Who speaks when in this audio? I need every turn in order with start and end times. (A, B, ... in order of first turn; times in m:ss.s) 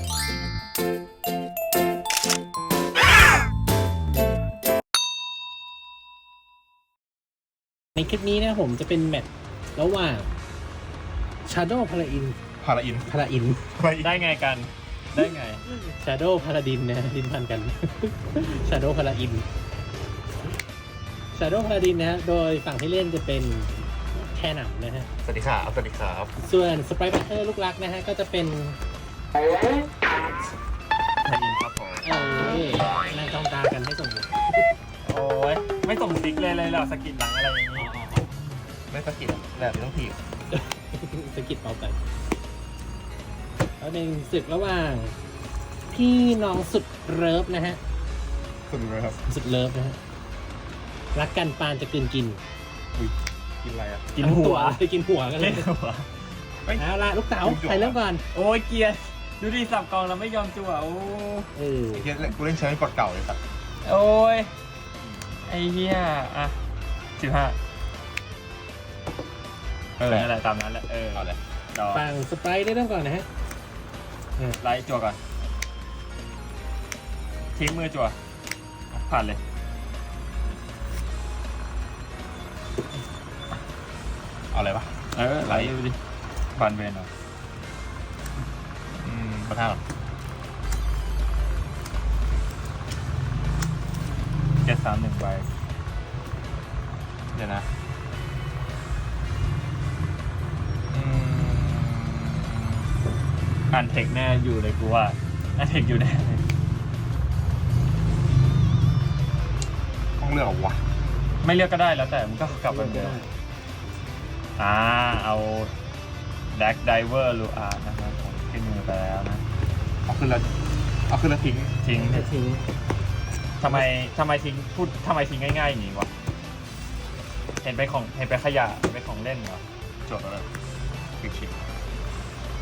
0:08.0-0:10.3 A
0:11.4-0:12.4 A
0:12.6-0:13.1 B
0:13.0-0:13.6 A
0:13.8-0:14.2 B
0:14.0-0:15.6 C
0:15.7-0:19.4 A
0:21.3-0:25.1 A
0:25.2-0:26.3 C
0:26.4-0:28.8 A
0:31.2-0:32.0 C
0:32.0-0:34.7 A
0:35.0-0:37.9 C
0:37.8-0:38.3 A
0:38.9-0:40.2 B
0:40.5-0:42.0 A
0:43.8-0:45.2 A
0:45.9-0:47.8 A
0:48.7-0:49.2 B
0:49.2-0:50.0 A
0:51.1-0:52.4 A
0:53.0-0:54.1 B
0:54.1-0:54.8 C
0:54.2-0:55.7 A
0:55.4-0:56.4 C
0:56.8-0:58.2 A
0:57.4-0:58.0 B
0:58.3-1:01.5 C
1:01.5-1:02.1 A
1:01.9-1:03.4 B
1:03.8-1:04.5 C
1:05.4-1:06.6 C
1:07.2-1:07.6 C
1:10.0-1:10.3 B
1:10.0-1:12.0 C
1:11.9-1:13.3 A
1:14.6-1:15.2 C
1:17.5-1:18.2 C
1:19.0-1:19.4 C
1:24.5-1:25.7 B
1:25.1-1:26.0 C
1:26.6-1:27.1 C
1:29.0-1:29.8 B
1:34.6-1:35.5 C
1:37.3-1:37.7 B
1:40.9-1:42.9 B
1:43.7-1:46.4 C
1:50.2-1:50.8 B
1:51.4-1:53.2 C
1:52.4-1:53.3 A
1:54.6-1:55.7 C
1:56.5-1:59.4 C
2:00.1-2:00.5 B
2:01.1-2:01.8 B
2:01.8-2:02.3 C
2:01.9-2:02.7 A
2:03.6-2:06.1 C
2:07.6-2:09.6 C
2:10.1-2:10.4 B
2:11.2-2:11.5 B